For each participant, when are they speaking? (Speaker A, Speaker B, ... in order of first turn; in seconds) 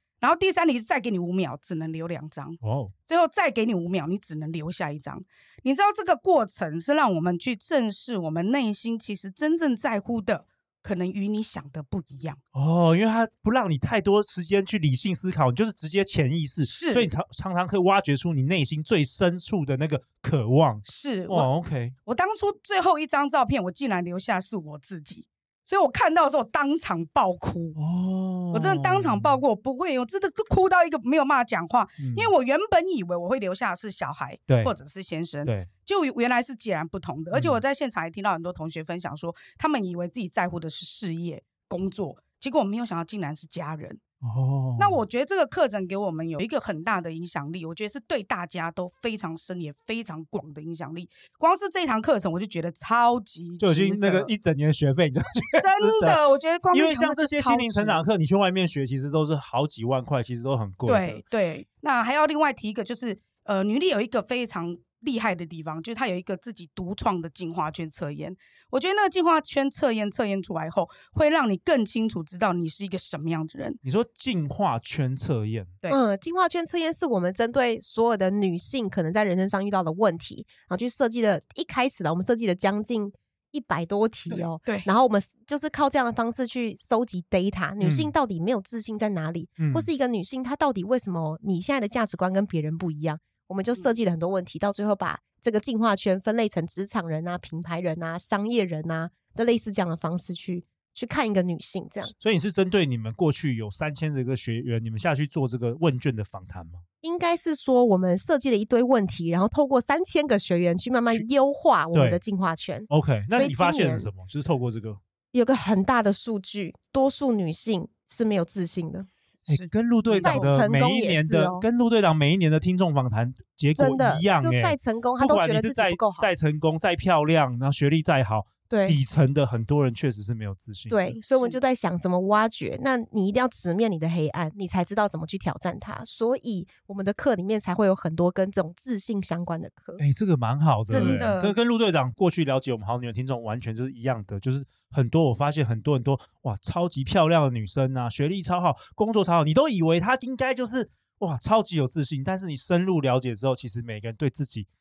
Speaker A: 0.2-12.4, 16.6-17.1, 20.8-21.5, 22.1-27.8, 28.5-44.0, 44.8-54.3, 55.6-58.0, 60.9-73.8, 84.3-84.9, 119.5-120.6, 140.9-141.6
Speaker B: 2.6-2.9, 12.5-21.9, 27.8-29.4, 32.0-32.3, 37.3-37.6, 44.2-45.0, 53.6-61.2, 73.8-75.7, 87.8-88.1, 89.6-89.9, 102.2-106.8, 111.9-112.2, 112.9-115.0, 119.5-131.2, 140.0-154.7
Speaker C: 75.9-102.1, 107.0-114.1, 115.3-119.1, 120.2-121.6, 123.8-126.3, 128.7-129.0, 130.9-140.0, 140.9-141.2